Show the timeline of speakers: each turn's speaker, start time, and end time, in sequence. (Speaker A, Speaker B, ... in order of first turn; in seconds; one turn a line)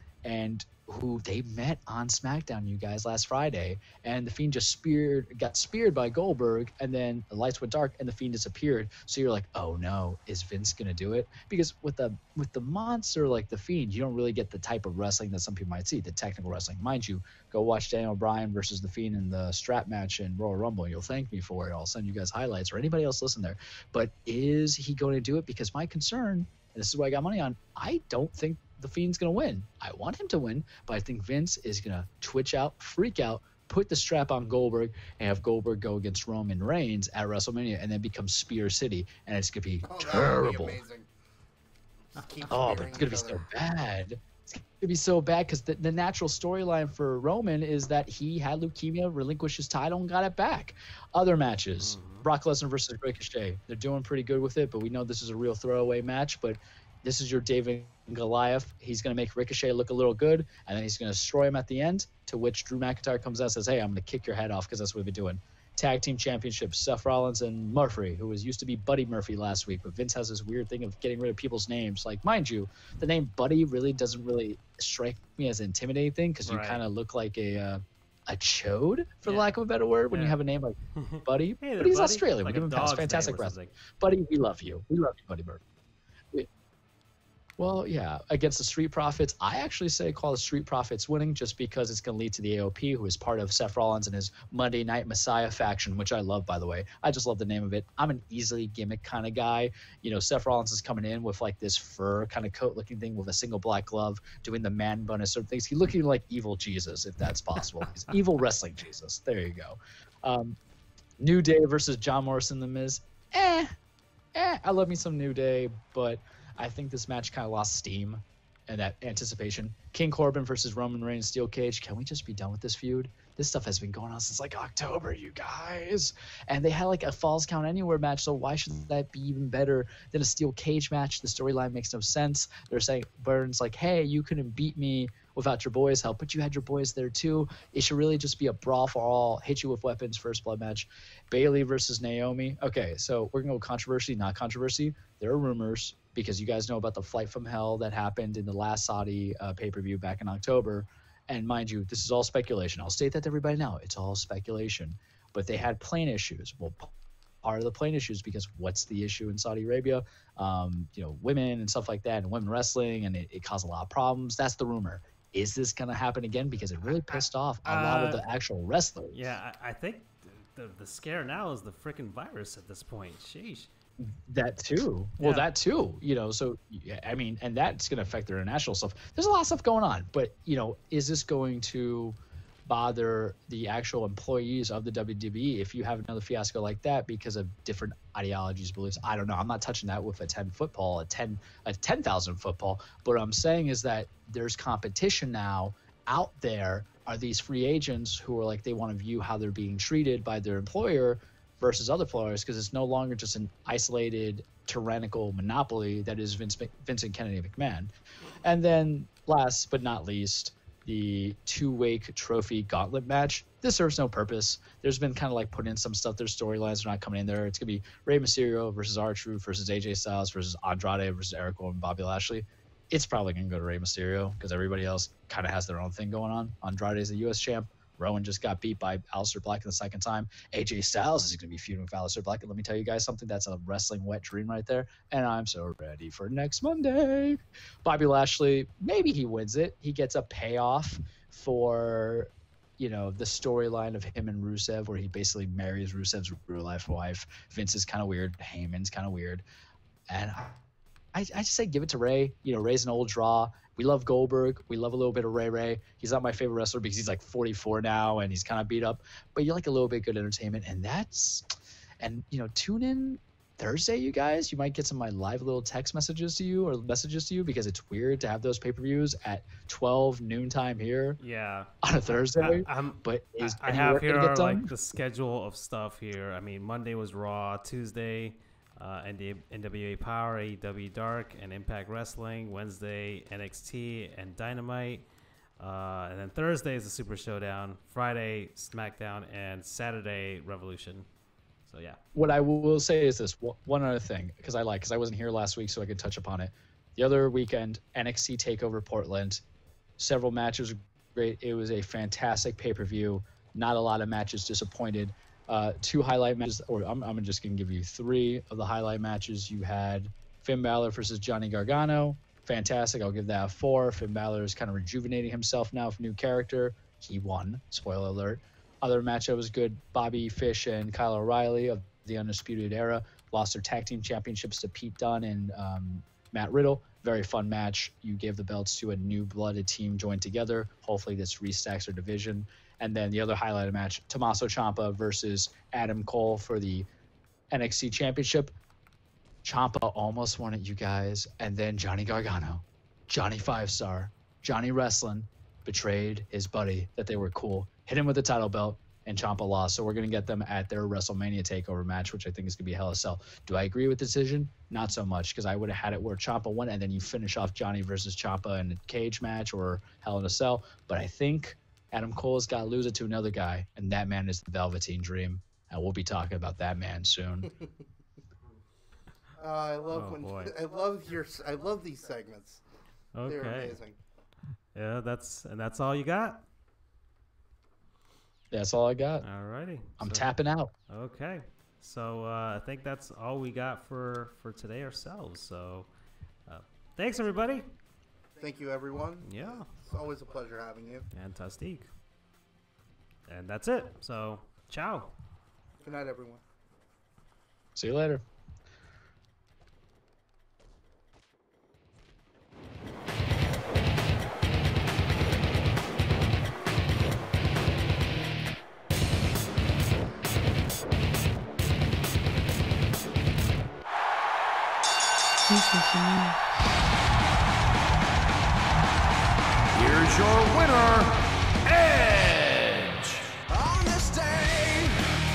Speaker A: 0.2-40.8
Speaker B: 39.8-41.1
Speaker B: 42.1-43.4
Speaker A: 42.5-85.6
Speaker C: 51.8-52.2
Speaker C: 76.5-76.8
Speaker C: 79.2-79.5
Speaker C: 80.1-80.4
Speaker C: 81.0-83.8
Speaker A: 87.6-110.6
Speaker A: 111.2-113.7
Speaker A: 114.3-156.9
Speaker A: 157.4-169.3
Speaker C: 167.1-168.2
Speaker C: 169.1-173.7
Speaker A: 174.0-207.9
Speaker C: 175.2-175.5
Speaker A: 208.4-249.4
Speaker A: 250.1-250.6
Speaker A: 251.1-271.2
Speaker C: 271.2-285.1
Speaker A: 271.8-274.7
Speaker C: 285.6-291.1
Speaker C: 291.7-292.0
Speaker A: 292.1-299.4
Speaker A: 300.0-336.9
Speaker A: 337.5-338.5
Speaker A: 339.4-367.5
Speaker B: 369.4-372.6
Speaker C: 369.9-370.5
Speaker C: 373.1-373.8
Speaker B: 373.2-374.0
Speaker C: 374.7-376.4
Speaker A: 378.5-379.2
Speaker C: 379.2-380.3
Speaker A: 380.0-380.7
Speaker C: 380.9-385.9
Speaker C: 386.5-387.6
Speaker B: 388.4-391.1
Speaker C: 389.2-389.7
Speaker C: 391.1-391.9
Speaker C: 393.3-395.1
Speaker B: 395.8-396.4
Speaker A: 397.7-398.2
Speaker D: 415.5-416.4
Speaker D: 419.7-425.1